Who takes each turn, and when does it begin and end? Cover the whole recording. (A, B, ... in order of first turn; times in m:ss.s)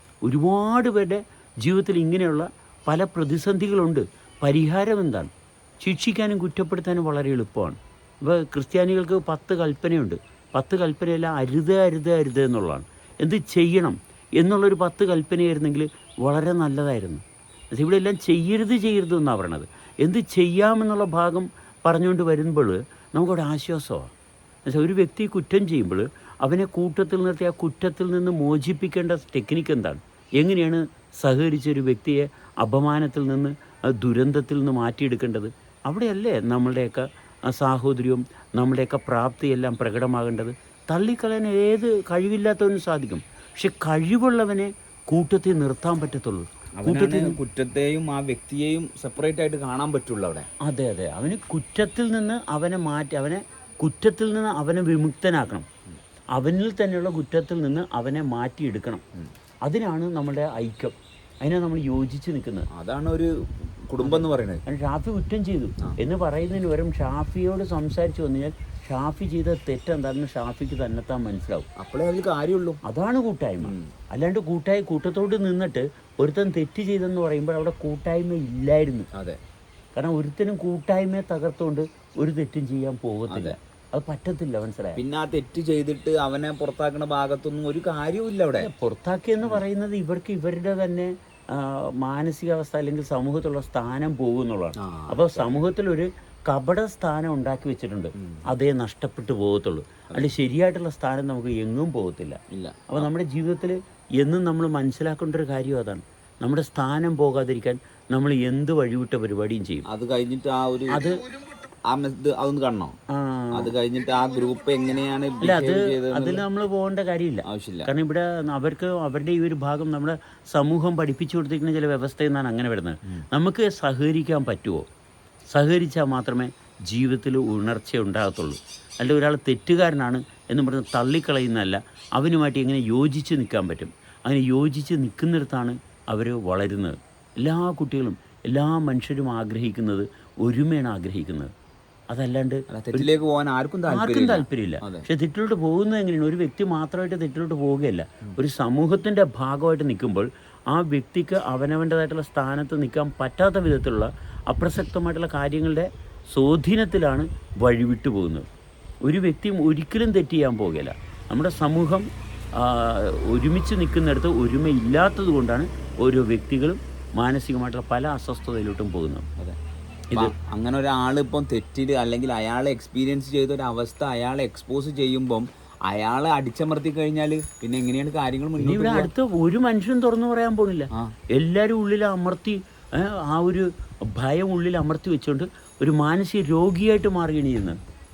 0:00.2-0:24.1 A
0:24.7-0:47.4 A
0:46.8-0:50.5 B
0:50.6-0:55.7 A
0:56.4-0:59.0 A
0:59.7-1:02.7 A
1:02.7-1:04.6 B
1:04.0-1:11.7 A
1:11.8-1:12.8 B
1:12.8-1:19.1 A
1:13.6-1:13.9 B
1:19.1-1:19.4 B
1:20.0-1:25.0 A
1:23.3-1:23.6 B
1:25.0-1:28.7 B
1:28.6-1:49.9 A
1:34.8-1:35.6 B
1:42.5-1:43.1 B
1:49.9-1:51.0 B
1:50.9-1:51.2 A
1:51.9-1:53.0 B
1:53.1-1:53.8 A
1:53.5-1:56.4 B
1:55.4-2:04.8 A
1:57.5-1:57.9 B
2:05.5-2:21.5 A
2:22.1-2:23.1 A
2:22.7-2:25.1 B
2:23.9-2:38.5 A
2:39.0-2:49.3 A
2:50.1-2:59.1 B
2:58.6-3:07.8 A